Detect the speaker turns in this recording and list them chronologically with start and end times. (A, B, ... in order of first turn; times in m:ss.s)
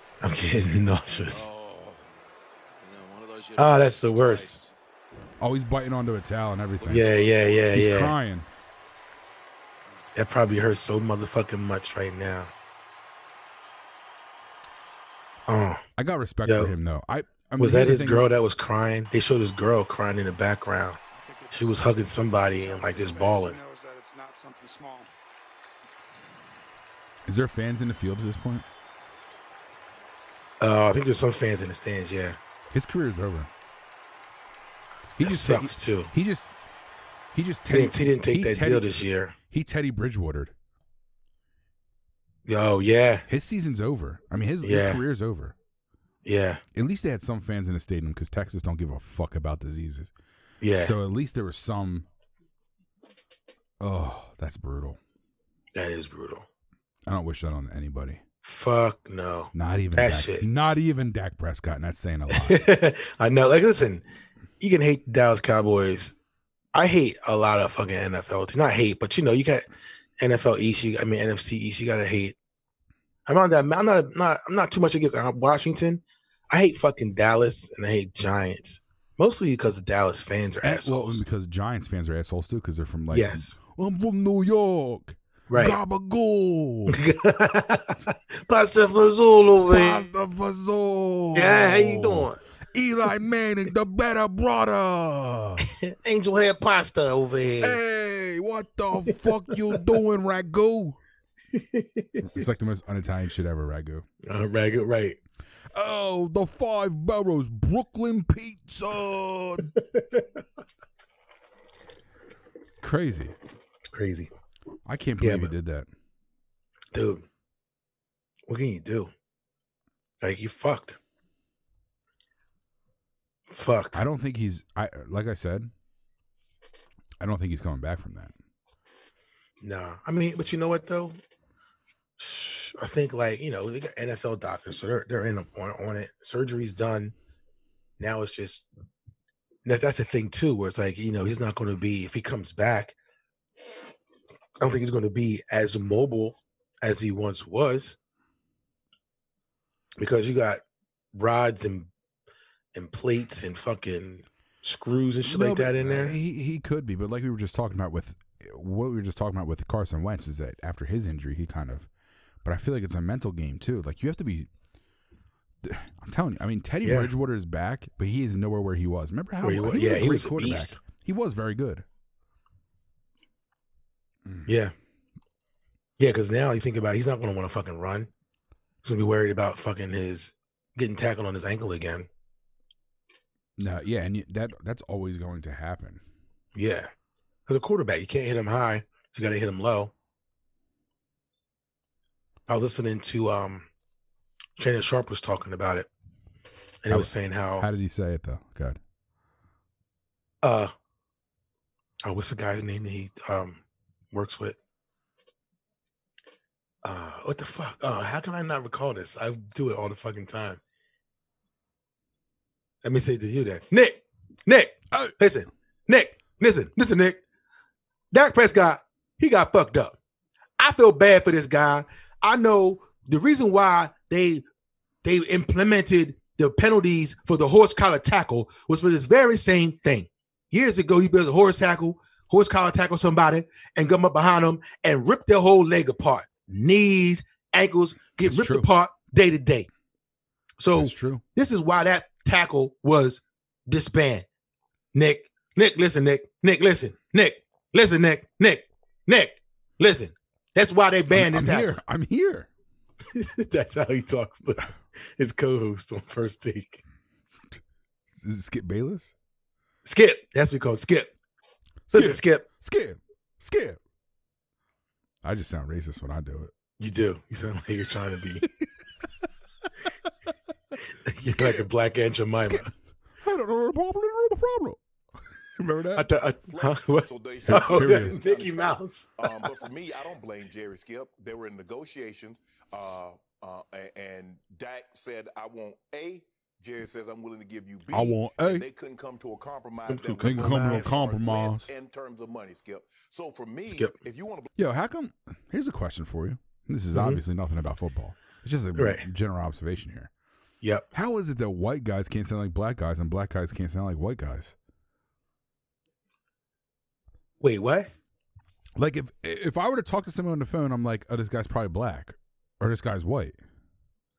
0:00.2-0:01.5 A
0:01.3-0:02.0 B
0:02.8-0:04.6 B
0:03.6-0:04.7 A
0:05.4-0:07.1 C
0:06.8-0:08.1 A
0:07.7-0:08.5 C
0:10.1-0:12.5 A
0:15.5-0:15.8 A
0:16.0-0:18.2 C
0:16.4-0:16.7 A
0:17.6-0:21.0 A
0:21.1-0:25.1 D
0:21.5-0:23.6 A
0:27.2-0:28.6 C
0:30.6-0:32.4 A
0:32.7-0:33.5 C
0:35.2-0:36.5 C
0:35.2-0:36.1 A
0:37.3-0:38.8 C
0:37.7-0:39.3 A
0:39.5-0:40.5 C
0:42.4-0:43.2 A
0:43.3-0:45.5 C
0:44.6-0:45.0 A
0:46.2-0:46.6 A
0:46.7-0:50.1 C
0:50.6-0:51.0 A
0:50.8-0:52.0 C
0:53.8-0:55.0 C
0:55.7-0:56.4 A
0:57.1-0:58.2 C
0:58.4-1:00.4 A
0:59.5-1:02.6 C
1:02.3-1:04.0 A
1:04.6-1:06.2 A
1:06.7-1:09.6 A
1:10.2-1:12.4 A
1:13.2-1:21.2 A
1:20.6-1:27.0 C
1:23.1-1:23.6 A
1:25.5-1:25.8 A
1:26.9-1:30.1 A
1:29.7-1:35.6 C
1:31.3-1:32.4 A
1:35.7-1:37.8 A
1:37.6-1:41.0 C
1:41.5-1:42.4 A
1:42.2-1:44.0 C
1:44.2-1:45.2 A
1:45.7-1:49.7 C
1:50.0-1:50.2 A
1:52.8-1:53.3 C
1:53.9-1:54.3 A
1:54.8-1:55.9 C
1:55.2-1:55.5 A
1:56.9-1:57.2 A
1:58.5-1:59.1 A
2:00.2-2:01.0 A
2:03.5-2:04.0 A
2:03.9-2:05.7 C
2:07.2-2:08.3 C
2:09.6-2:11.2 A
2:12.2-2:17.1 A
2:18.0-2:18.7 A
2:19.6-2:22.9 A
2:24.6-2:28.0 A
2:30.0-2:30.6 A
2:31.1-2:31.9 A
2:32.7-2:36.2 A
2:35.2-2:41.9 C
2:42.4-2:44.5 C
2:45.6-2:51.8 C
2:46.8-2:47.1 A
2:49.4-2:50.8 A
2:54.4-2:54.7 A
2:56.0-2:58.1 A
2:58.8-3:02.1 A
3:03.6-3:06.0 C
3:06.5-3:06.9 A
3:07.5-3:09.9 A
3:12.5-3:13.7 A
3:14.6-3:15.9 A
3:16.8-3:17.7 A
3:16.9-3:18.8 C
3:20.4-3:20.7 A
3:22.0-3:23.6 A
3:24.1-3:24.6 A
3:26.8-3:30.6 A
3:32.8-3:37.2 A
3:38.1-3:39.9 A
3:40.6-3:44.4 A
3:45.0-3:59.7 A
3:58.2-3:58.7 C
4:00.6-4:04.2 A
4:00.7-4:01.2 C
4:04.9-4:11.8 A
4:11.1-4:12.5 C
4:13.1-4:16.8 A
4:18.2-4:19.1 C
4:19.8-4:21.1 A
4:21.9-4:23.8 C
4:21.9-4:22.4 A
4:25.2-4:26.5 C
4:26.8-4:28.5 A
4:31.0-4:32.7 A
4:31.3-4:31.6 C
4:33.2-4:34.8 C
4:35.6-4:36.0 C
4:36.0-4:39.5 A
4:36.5-4:54.5 E
4:37.5-4:38.2 C
4:47.9-4:48.6 C
4:49.9-4:50.9 A
4:50.2-4:51.7 C
4:53.7-4:53.9 A
4:54.6-5:00.1 C
4:56.9-4:57.2 A
4:58.8-4:59.0 A
5:00.9-5:04.5 C
5:07.4-5:07.9 A
5:08.8-5:13.4 C